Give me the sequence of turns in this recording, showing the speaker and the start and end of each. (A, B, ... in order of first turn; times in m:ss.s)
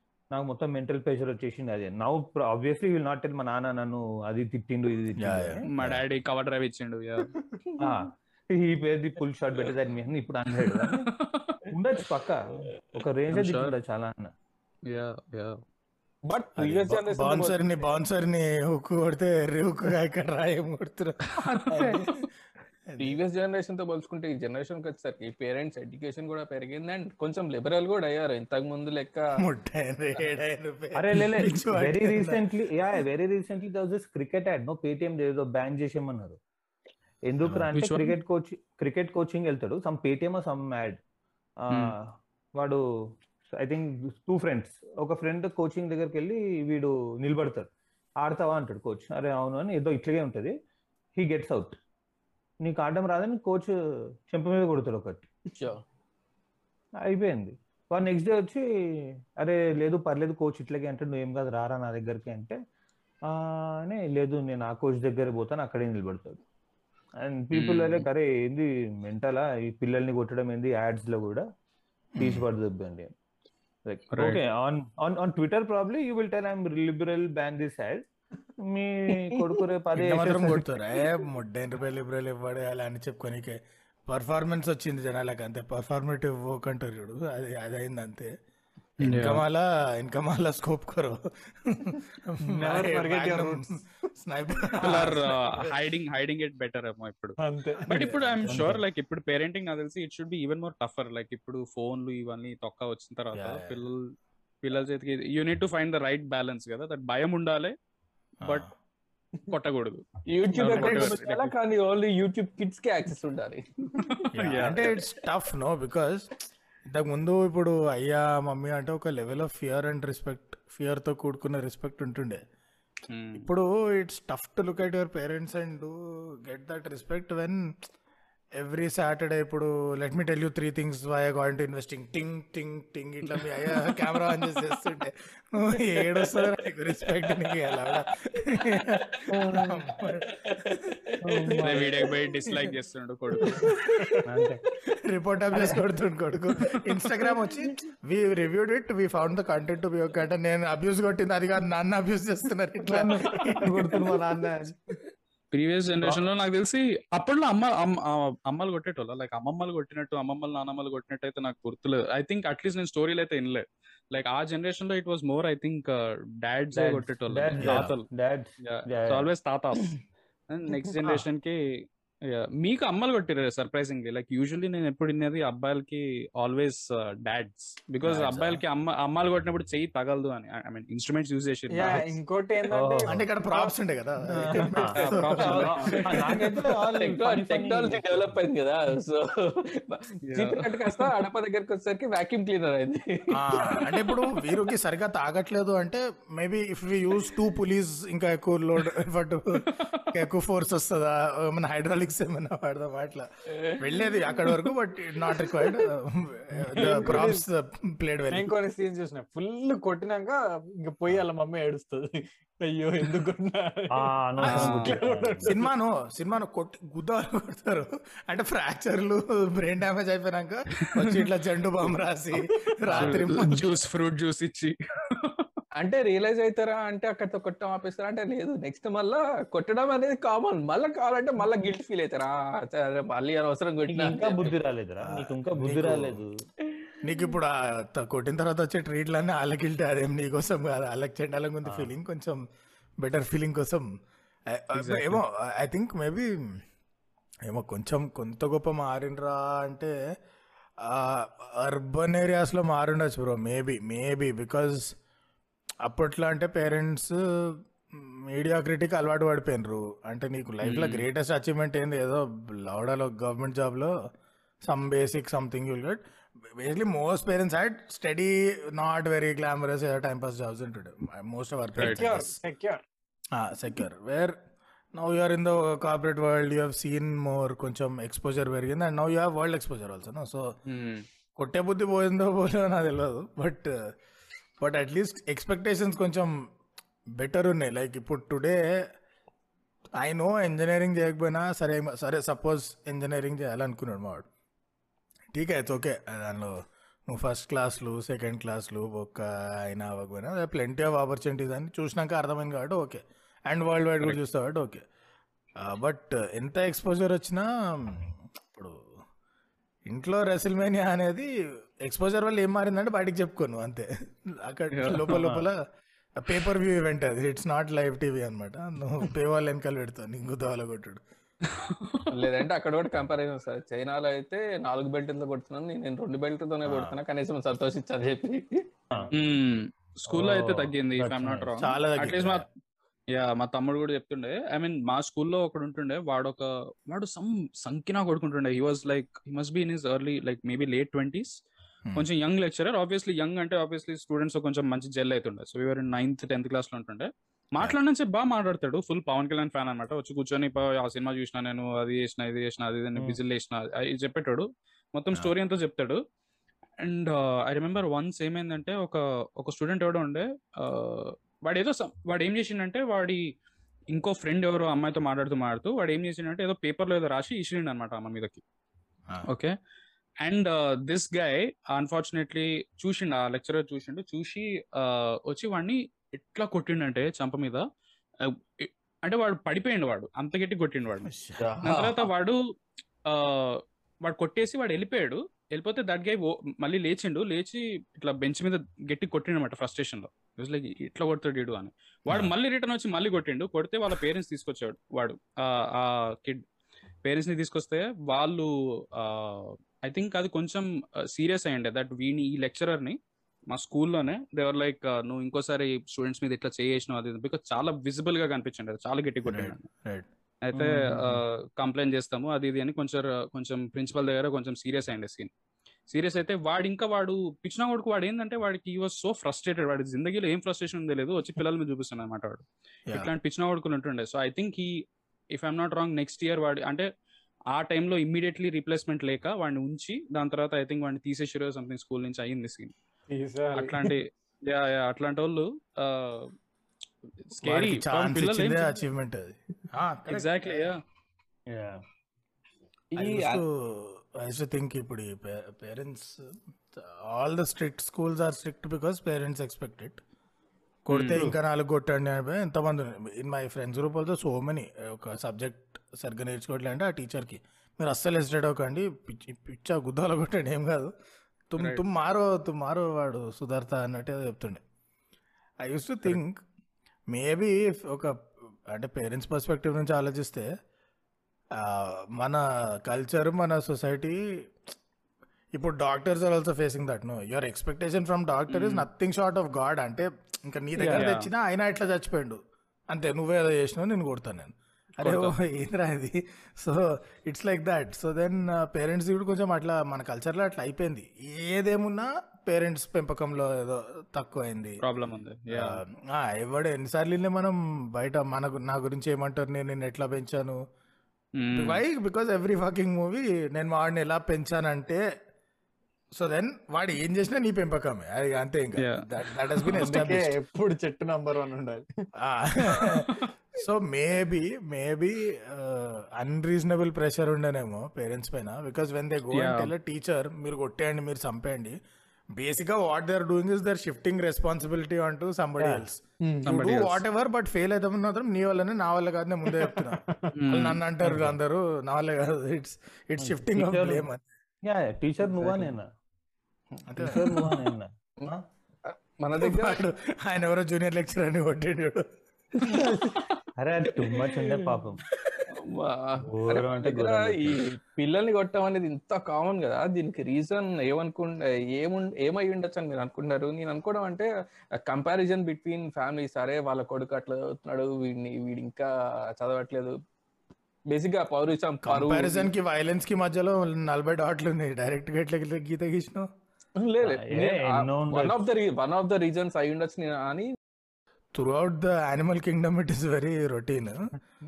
0:00.3-0:05.6 A
0:05.2-0:06.0 B
0:05.7-0:07.3 C
0:07.8-0:11.1 A
0:11.0-0:11.6 C
0:11.7-0:14.3 A
0:13.3-0:13.7 C
0:14.9-0:15.6 C
0:16.2-0:17.9 D
0:16.6-0:22.2 B
0:21.7-0:22.0 A
0:21.7-0:22.2 D
0:22.9-0:23.2 B
0:23.0-0:29.2 D
0:29.4-0:32.4 B
0:30.9-0:36.4 A
0:37.3-0:41.0 A
0:37.7-0:38.2 C
0:41.6-0:42.8 A
0:41.7-0:41.9 C
0:43.5-0:47.7 A
0:48.2-0:50.5 A
0:51.2-0:51.8 A
0:52.6-0:53.7 A
0:54.2-0:55.3 A
0:55.6-0:55.8 D
0:57.0-1:02.6 A
1:03.3-1:06.4 A
1:07.2-1:11.4 A
1:07.5-1:08.0 C
1:12.2-1:12.4 B
1:12.2-1:13.1 A
1:13.8-1:18.0 A
1:14.1-1:14.4 C
1:18.6-1:20.7 A
1:20.0-1:28.3 B
1:29.0-1:29.4 C
1:29.0-1:35.8 B
1:32.4-1:33.6 E
1:34.8-1:35.2 E
1:34.8-1:47.7 C
1:37.4-1:38.0 E
1:37.8-1:38.7 B
1:38.5-1:38.8 A
1:43.4-1:43.8 B
1:49.5-1:51.5 C
1:50.3-1:54.2 D
1:50.6-1:51.3 B
1:54.0-1:55.0 C
1:54.4-1:56.3 B
1:56.8-2:02.4 B
2:03.1-2:03.5 C
2:03.4-2:07.7 B
2:08.6-2:20.8 B
2:17.2-2:18.0 D
2:19.3-2:19.9 A
2:20.3-2:21.9 D
2:21.2-2:22.0 A
2:21.6-2:23.7 C
2:23.4-2:23.9 D
2:23.8-2:24.0 B
2:23.8-2:24.2 E
2:24.2-2:24.6 A
2:25.0-2:34.7 B
2:32.8-2:34.8 A
2:35.5-2:48.1 C
2:46.7-2:49.3 A
2:47.6-2:47.9 B
2:48.6-2:49.9 C
2:50.5-3:02.0 C
2:58.0-2:58.6 B
3:01.7-3:03.7 E
3:02.7-3:03.2 A
3:03.1-3:06.5 B
3:04.3-3:08.4 A
3:04.5-3:06.6 E
3:04.9-3:06.3 C
3:07.0-3:14.2 D
3:10.2-3:11.1 C
3:13.4-3:28.5 B
3:19.7-3:20.1 C
3:23.6-3:24.0 D
3:25.4-3:25.7 D
3:26.8-3:27.4 E
3:28.3-3:35.7 E
3:34.0-3:35.6 A
3:34.4-3:34.9 C
3:35.4-3:43.7 B
3:43.0-3:45.5 C
3:45.8-3:54.6 D
3:53.9-3:56.3 A
3:55.0-3:56.2 B
3:57.0-4:02.4 B
4:01.6-4:01.9 A
4:03.0-4:03.9 B
4:04.5-4:06.6 B
4:04.7-4:05.2 C
4:07.5-4:09.9 B
4:10.8-4:14.9 B
4:15.8-4:23.9 B
4:20.6-4:21.0 C
4:24.6-4:26.0 B
4:26.6-4:32.3 B
4:31.8-4:32.1 C
4:31.8-4:32.8 E
4:33.3-4:34.4 B
4:34.9-4:40.5 B
4:40.6-4:41.0 C
4:41.4-4:43.7 B
4:44.6-4:46.3 B
4:47.2-4:48.6 B
4:50.0-4:54.2 B
4:55.3-4:56.6 B
4:57.1-5:04.8 B
5:05.6-5:08.8 B
5:09.8-5:11.3 B
5:11.8-5:15.6 B
5:14.7-5:15.1 C
5:15.1-5:15.4 A
5:16.2-5:21.0 B
5:21.5-5:22.1 C
5:22.1-5:28.6 D
5:26.6-5:26.9 B
5:29.1-5:32.4 C
5:30.1-5:31.5 A
5:31.6-5:32.4 B
5:33.1-5:41.3 C
5:41.9-5:56.0 C
5:56.8-6:03.3 C
6:03.9-6:08.4 C
6:09.3-6:09.5 C
6:10.2-6:17.6 C
6:18.2-6:21.1 C
6:21.1-6:21.4 B
6:21.4-6:21.7 A
6:21.5-6:22.1 D
6:21.6-6:22.4 C
6:23.0-6:36.4 C
6:37.0-6:43.0 C
6:43.5-6:49.7 C
6:49.3-6:50.1 B
6:50.4-6:55.3 C
6:50.5-6:51.2 A
6:55.9-7:04.8 C
7:05.3-7:06.9 C
7:07.5-7:12.7 C
7:13.1-7:14.0 E
7:13.5-7:16.3 C
7:17.3-7:18.8 C
7:17.4-7:20.7 B
7:20.1-7:20.8 C
7:21.5-7:21.8 A
7:22.9-7:23.4 D
7:23.0-7:30.0 B
7:30.8-7:40.9 B
7:30.9-7:31.2 C
7:41.5-7:44.6 B
7:41.6-7:41.8 C
7:45.6-7:46.4 B
7:47.1-7:48.2 B
7:48.7-7:50.5 B
7:51.5-7:54.2 B
7:55.5-8:14.8 B
7:58.5-7:58.9 C
8:00.8-8:01.3 C
8:05.0-8:05.3 C
8:14.8-8:15.8 C
8:15.5-8:20.6 B
8:21.4-8:21.8 C
8:21.5-8:25.0 B
8:26.2-8:30.3 B
8:29.7-8:31.8 E
8:32.2-8:41.8 B
8:32.8-8:33.2 C
8:39.3-8:39.7 C
8:42.4-8:54.2 B
8:45.6-8:45.8 A
8:46.2-8:46.7 E
8:46.4-8:47.0 C
8:49.5-8:50.4 E
8:50.3-8:50.8 C
8:53.2-8:54.1 A
8:54.6-8:55.9 A
8:56.9-8:57.6 B
8:57.0-8:58.4 A
8:58.9-8:59.8 D
8:59.3-9:02.1 B
9:02.6-9:03.4 D
9:02.7-9:05.0 A
9:04.0-9:04.7 D
9:05.5-9:20.0 D
9:06.3-9:07.7 A
9:20.9-9:22.5 D
9:21.9-9:26.3 B
9:26.8-9:30.5 D
9:27.0-9:28.4 A
9:31.4-9:34.1 B